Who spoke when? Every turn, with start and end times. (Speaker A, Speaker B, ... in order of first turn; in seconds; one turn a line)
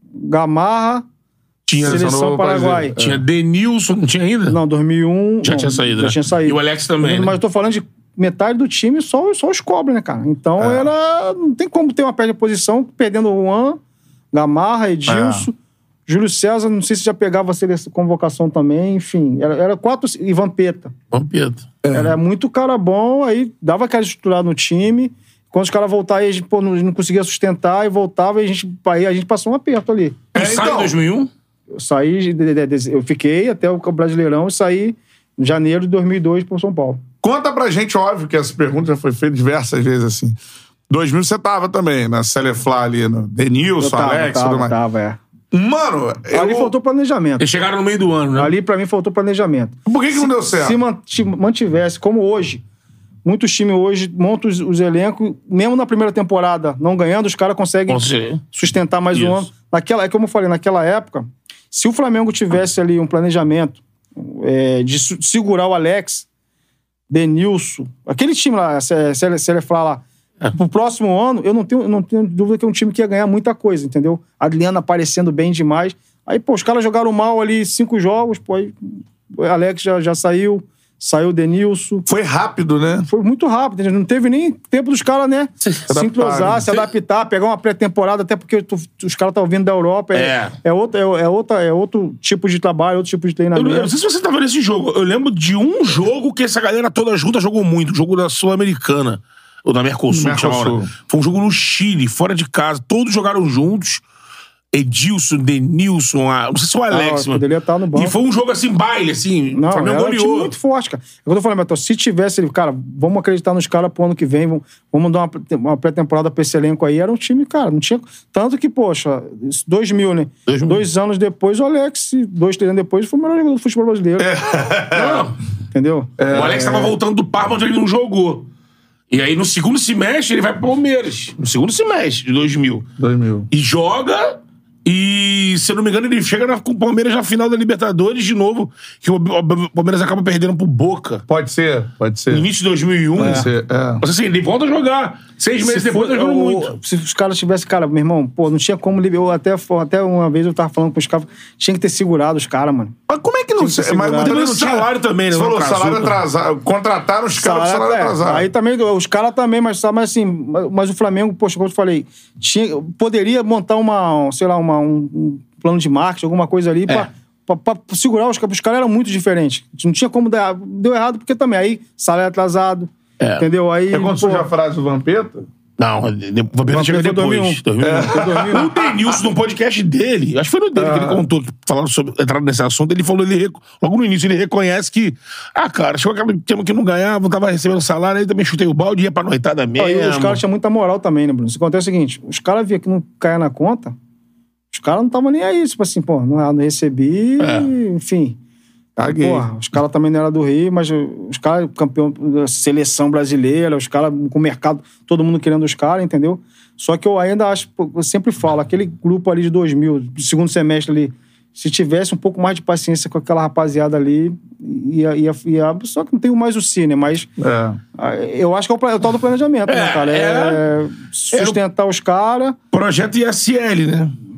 Speaker A: 0.1-1.0
Speaker B: 1.7-2.1
Speaker C: 1.8-3.2
Speaker A: 1.8-3.0
Speaker B: 3.0-4.6
Speaker A: 4.5-13.8
Speaker B: 5.4-7.4
Speaker C: 10.6-10.9
Speaker A: 14.3-15.5
Speaker C: 15.1-15.5
Speaker A: 16.1-20.9
Speaker B: 21.1-21.7
Speaker C: 21.8-22.1
Speaker A: 21.9-30.2
Speaker C: 30.3-30.9
Speaker B: 30.3-31.3
Speaker A: 31.7-37.0
Speaker C: 37.2-40.4
Speaker C: 40.9-44.7
Speaker A: 43.8-45.2
Speaker C: 45.5-46.7
Speaker A: 46.3-47.5
Speaker B: 47.4-48.5
Speaker A: 48.4-52.6
Speaker C: 49.9-50.8
Speaker A: 53.2-66.3
Speaker B: 57.9-58.4
Speaker B: 59.1-59.4
Speaker A: 67.1-78.7
Speaker A: 79.3-82.0
Speaker C: 82.0-83.1
Speaker A: 83.1-93.9
Speaker C: 85.9-86.7
Speaker B: 90.1-90.5
Speaker B: 93.5-104.0
Speaker C: 100.1-100.9
Speaker B: 104.7-110.5
Speaker A: 106.9-108.2
Speaker A: 109.5-124.3
Speaker B: 120.5-120.8
Speaker C: 124.2-125.3
Speaker B: 124.9-125.4
Speaker A: 125.7-126.9
Speaker C: 126.2-126.7
Speaker B: 126.3-128.5
Speaker B: 129.1-132.9
Speaker C: 133.0-133.5
Speaker B: 133.5-141.2
Speaker C: 141.3-142.5
Speaker B: 142.3-143.5
Speaker C: 143.2-144.0
Speaker A: 143.2-143.4
Speaker B: 144.0-146.7
Speaker A: 145.6-152.9
Speaker C: 153.1-158.5
Speaker A: 153.6-154.4
Speaker B: 154.2-156.2
Speaker A: 157.3-174.5
Speaker B: 173.2-173.4
Speaker C: 173.9-175.5
Speaker B: 175.8-190.4
Speaker A: 176.7-178.8
Speaker C: 177.8-179.2
Speaker C: 180.8-181.2
Speaker A: 189.8-193.9
Speaker A: 194.7-198.4
Speaker B: 197.4-197.7
Speaker C: 199.0-199.5
Speaker A: 199.0-217.3
Speaker C: 217.4-217.8
Speaker A: 217.9-222.6
Speaker B: 219.7-220.6
Speaker B: 221.3-221.6
Speaker B: 222.7-224.1